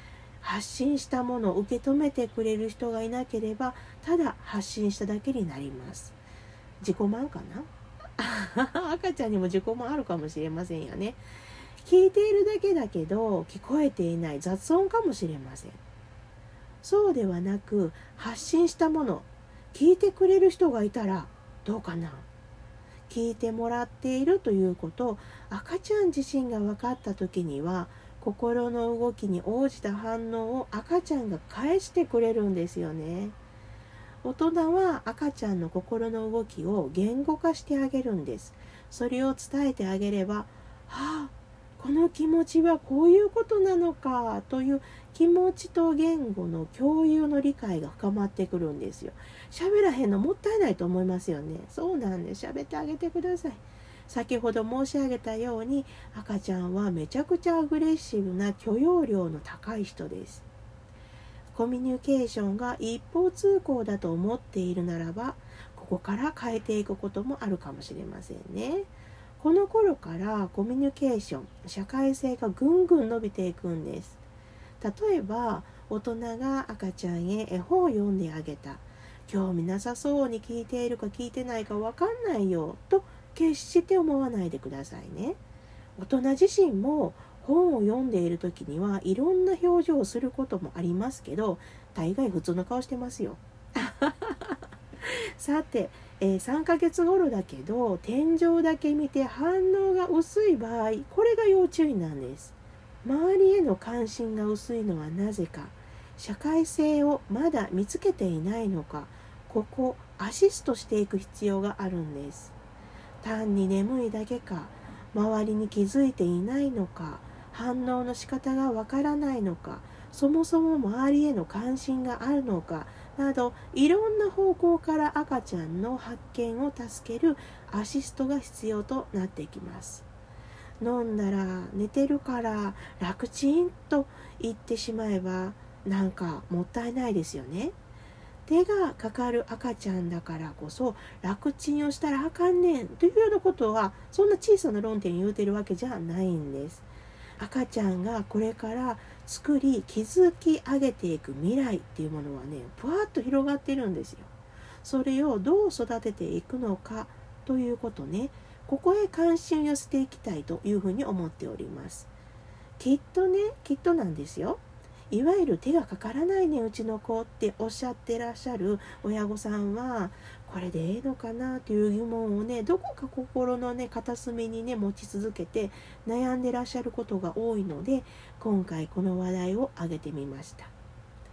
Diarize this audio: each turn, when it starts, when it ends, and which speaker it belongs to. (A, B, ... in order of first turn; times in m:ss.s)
0:00.4-0:06.2 A
0:06.8-0:11.2 A
0:11.8-0:15.8 A
0:16.8-0:22.3 A
0:23.1-0:33.4 A
0:34.2-1:00.4 A
1:01.5-1:14.2 A
1:14.8-1:25.4 A
1:26.0-1:52.5 A
1:53.2-2:10.0 A
2:10.8-2:17.7 A
2:18.4-2:34.3 A
2:34.8-2:42.1 A
2:42.8-3:00.7 A